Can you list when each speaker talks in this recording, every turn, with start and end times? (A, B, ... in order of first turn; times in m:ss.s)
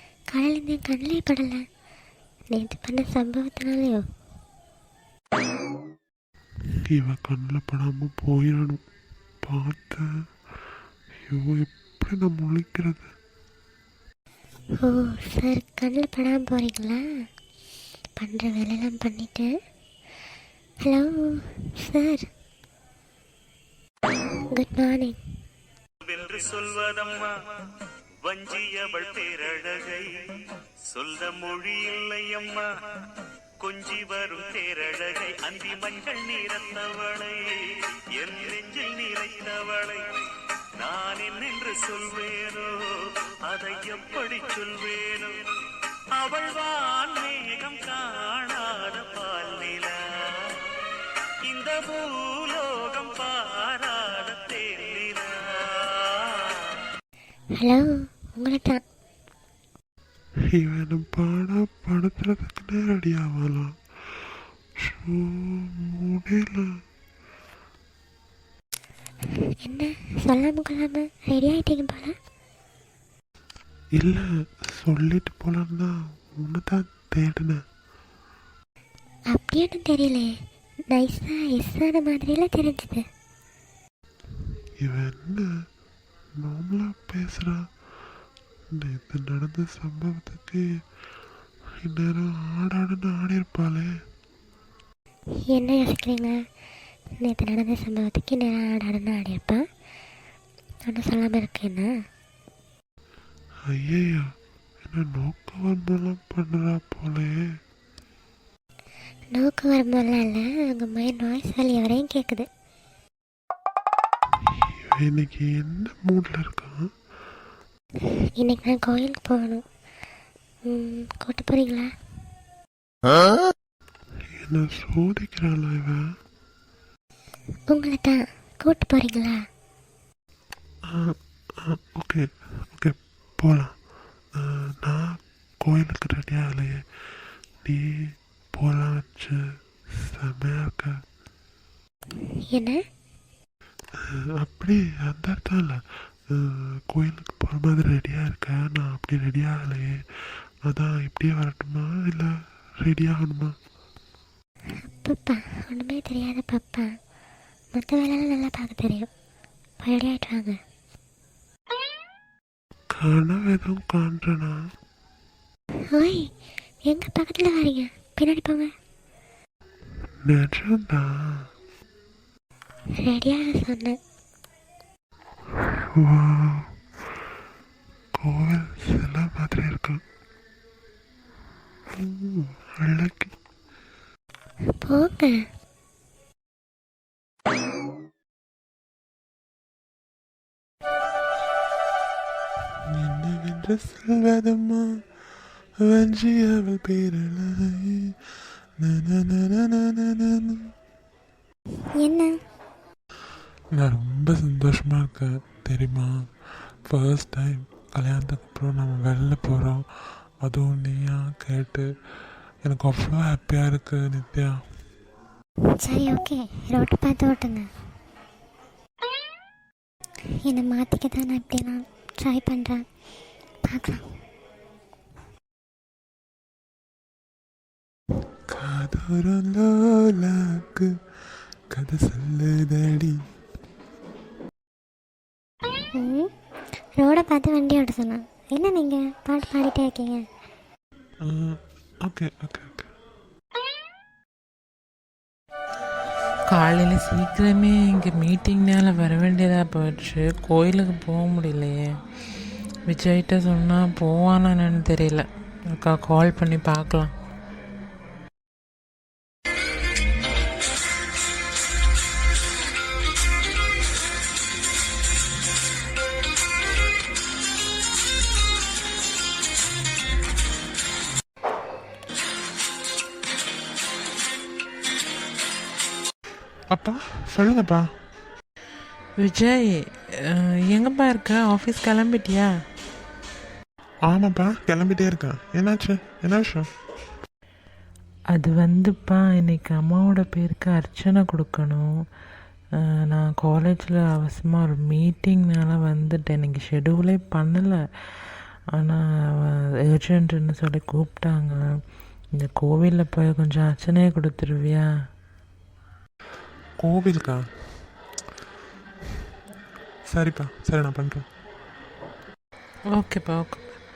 0:00.3-0:01.6 A
0:02.5-0:04.0 A
0:06.9-0:08.8 B
0:09.4-0:10.0 B
0:11.3-0:13.1 B
0:14.8-0:17.0 A
0:18.2-0:19.5 A
0:21.8-0:22.3 A
0:24.5-0:25.1 A
0:26.0-0:27.3 C
0:28.2-0:30.1 C
0:30.9-0:32.7 C
0:33.6-0:40.0 C
0:40.8-0:50.8 C
0:51.5-0:56.8 C
0:57.6-0:57.8 A
0:58.4-0:58.8 A
1:00.5-1:03.7 B
1:04.8-1:06.6 B
1:09.6-1:12.1 A
1:14.0-1:17.6 B
1:19.3-1:20.3 A
1:20.9-1:23.0 A
1:24.8-1:25.5 B
1:26.4-1:27.6 B
1:28.8-1:30.6 B
1:31.8-1:33.9 B
1:35.5-1:36.4 A
1:37.2-1:39.6 A
1:40.9-1:41.9 A
1:43.7-1:44.2 B
1:44.9-1:47.3 B
1:49.3-1:52.5 A
1:54.7-1:56.8 B
1:58.4-1:59.6 A
2:00.7-2:01.9 A
2:04.3-2:06.0 B
2:07.7-2:09.4 A
2:11.6-2:13.7 B
2:14.4-2:16.8 B
2:18.6-2:19.4 B
2:20.0-2:20.9 B
2:22.5-2:22.8 A
2:24.4-2:25.8 B
2:26.3-2:29.9 B
2:30.7-2:32.3 B
2:32.8-2:33.5 B
2:34.8-2:36.9 A
2:37.8-2:39.1 A
2:39.8-2:40.6 A
2:43.0-2:44.5 B
2:46.0-2:46.2 A
2:46.9-2:48.7 A
2:50.3-2:51.1 B
2:53.0-2:54.0 A
2:55.6-2:56.7 B
2:58.2-3:00.0 B
3:02.0-3:03.3 B
3:04.8-3:05.4 A
3:12.9-3:14.9 B
3:15.8-3:20.6 B
3:22.0-3:22.3 A
3:23.8-3:31.9 B
3:32.6-3:34.5 B
3:35.8-3:37.7 A
3:40.5-3:42.8 A
3:43.7-3:44.0 A
3:48.5-3:50.9 B
3:51.7-3:53.2 B
3:56.0-3:56.3 A
3:57.0-4:00.2 A
4:01.3-4:02.9 B
4:06.5-4:11.9 D
4:12.9-4:17.1 D
4:36.7-4:37.9 B
4:39.2-4:39.8 D
4:40.3-4:42.5 D
4:44.1-4:46.7 B
4:48.3-4:51.9 D
4:53.1-4:57.8 D
4:59.5-5:01.6 D
5:02.4-5:04.8 D
5:06.8-5:07.4 B
5:10.1-5:11.3 B
5:12.9-5:13.7 D